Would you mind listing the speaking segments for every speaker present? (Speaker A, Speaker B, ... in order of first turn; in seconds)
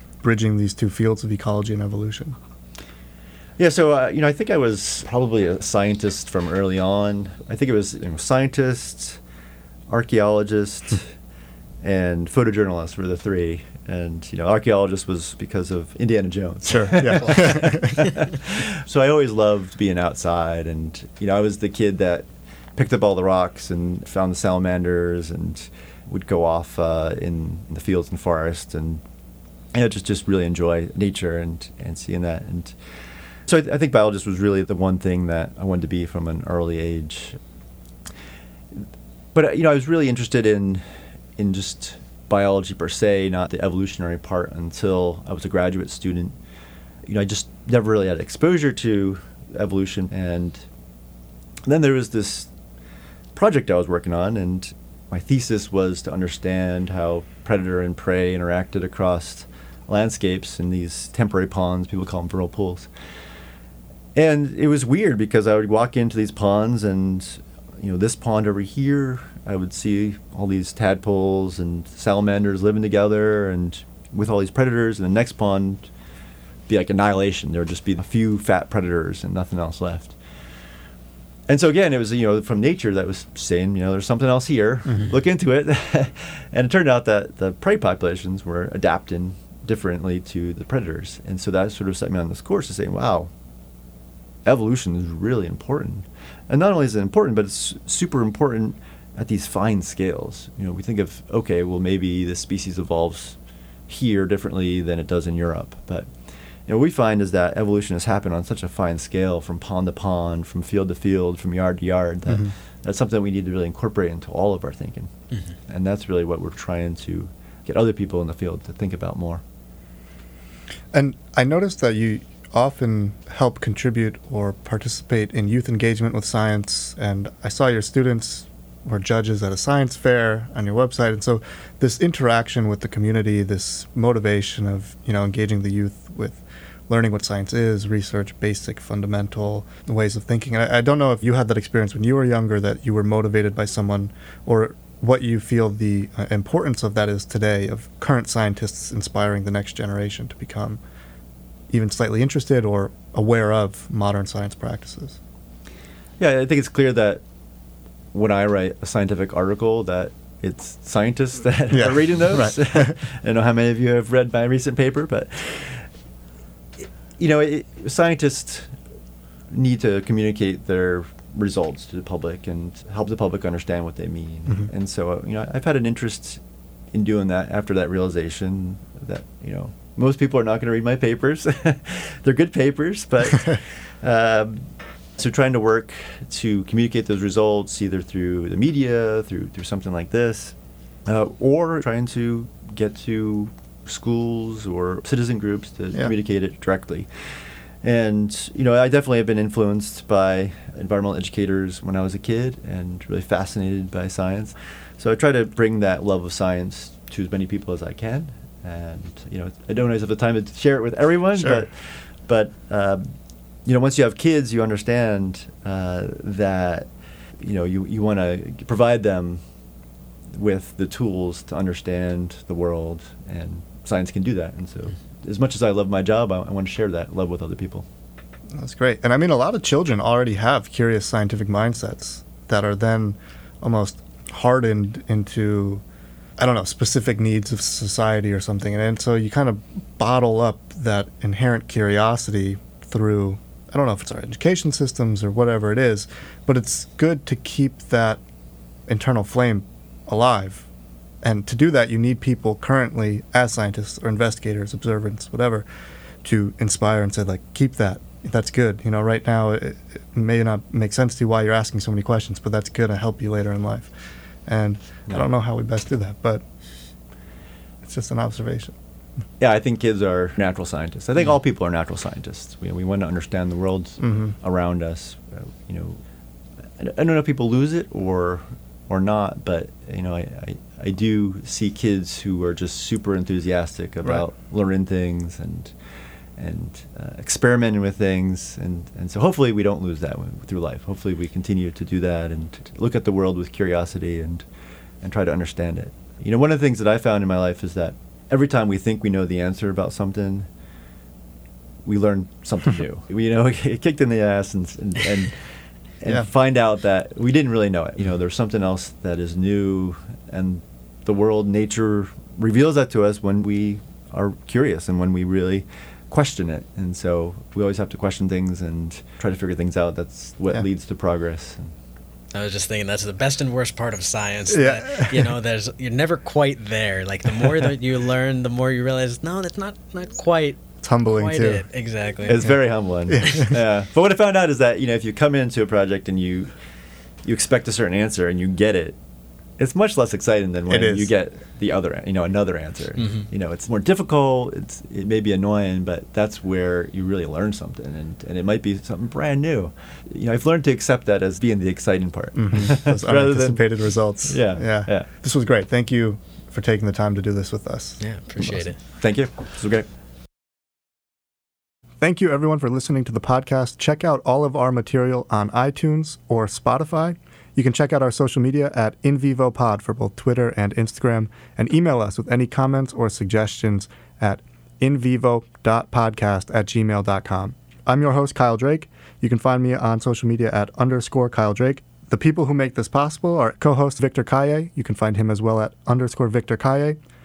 Speaker A: 0.2-2.4, 16.7-18.0, 120.9-150.8, 151.7-155.2, 161.8-162.9, 228.6-235.8, 236.4-248.2, 248.9-250.7, 251.2-255.7, 256.2-263.9, 264.5-266.4, 267.8-268.8, 274.0-274.3, 324.5-325.3, 330.8-331.6, 333.1-333.5, 340.7-341.1, 352.4-358.7, 362.0-387.0
Speaker B: 3.6-9.2, 9.9-11.1, 11.8-29.0, 29.7-32.8, 33.5-37.4, 38.7-40.8, 41.4-46.4, 47.0-50.7, 51.7-52.5, 53.4-62.9, 64.2-75.9, 76.7-80.2, 81.5-93.3, 94.5-103.4, 103.9-106.1, 106.7-115.1, 115.7-119.4, 156.2-157.2, 158.1-165.9, 166.8-168.7, 169.5-197.1, 197.8-213.1, 213.7-219.4, 220.3-227.9, 269.4-276.0, 276.8-285.7, 286.4-294.4, 295.0-300.5, 301.9-305.4, 306.0-321.7, 332.2-336.5, 337.2-339.0, 339.6-355.1, 359.0-359.9
Speaker C: 322.3-332.6, 343.0-343.3, 358.0-358.8